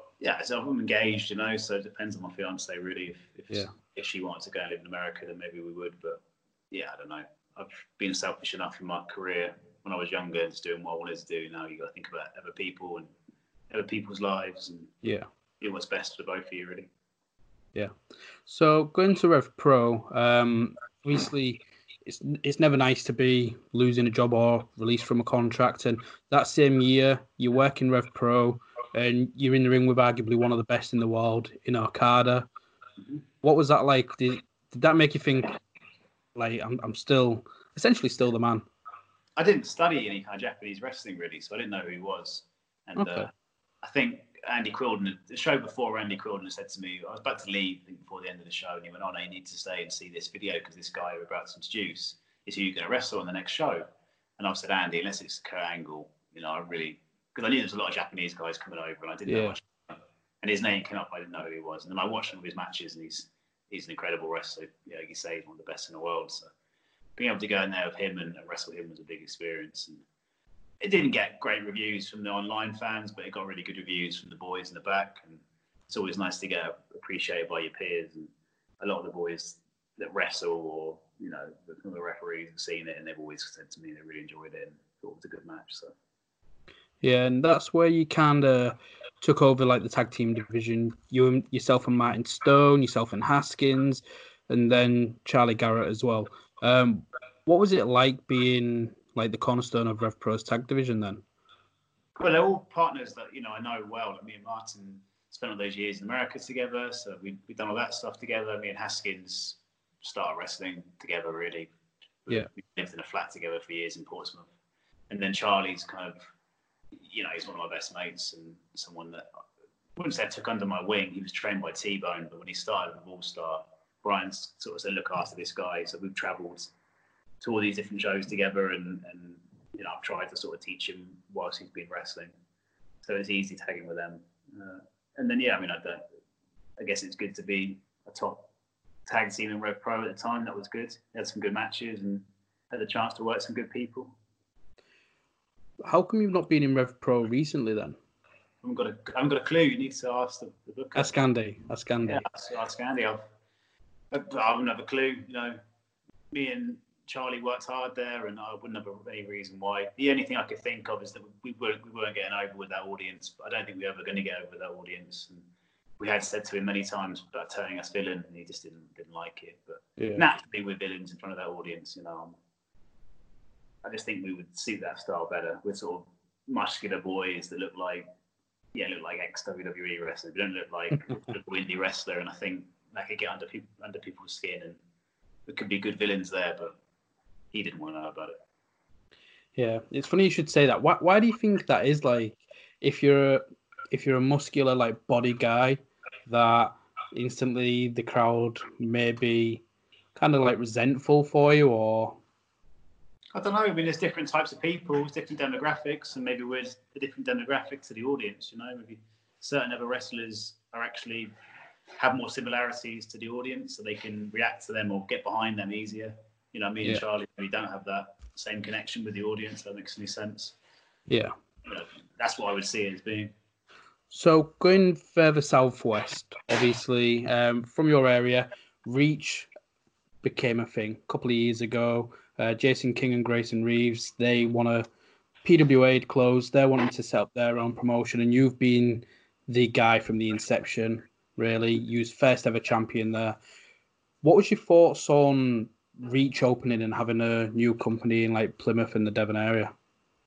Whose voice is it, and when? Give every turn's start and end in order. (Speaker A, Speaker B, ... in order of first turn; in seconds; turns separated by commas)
Speaker A: 0.2-13.1, Speaker A: 13.7-14.9, Speaker A: 15.6-16.9, Speaker B: 18.5-32.5, Speaker B: 33.4-35.6, Speaker B: 36.4-38.7, Speaker A: 39.4-43.3, Speaker B: 43.0-43.3, Speaker A: 43.8-53.9, Speaker A: 54.4-66.5, Speaker B: 59.3-59.6, Speaker A: 67.2-70.0, Speaker A: 70.8-85.9, Speaker B: 87.0-101.2, Speaker A: 102.2-111.7, Speaker A: 112.3-114.5, Speaker A: 115.1-116.3, Speaker A: 117.0-119.3, Speaker A: 120.0-126.7, Speaker A: 127.4-132.3, Speaker A: 133.0-136.1, Speaker A: 136.8-138.5, Speaker A: 139.1-144.2, Speaker B: 145.8-148.0, Speaker A: 148.6-151.1, Speaker B: 151.0-152.2, Speaker A: 152.1-153.3, Speaker A: 154.1-155.6, Speaker A: 156.3-165.4, Speaker A: 166.0-172.4, Speaker B: 170.0-170.2, Speaker A: 173.8-178.1, Speaker A: 178.7-184.8, Speaker A: 185.5-186.8, Speaker A: 187.5-188.4, Speaker B: 189.6-199.6, Speaker B: 200.2-202.2, Speaker A: 203.3-211.3, Speaker A: 212.0-220.6, Speaker B: 221.1-221.3, Speaker A: 221.7-223.3, Speaker B: 224.1-229.5, Speaker B: 230.2-234.9, Speaker B: 235.4-243.4, Speaker B: 244.2-249.7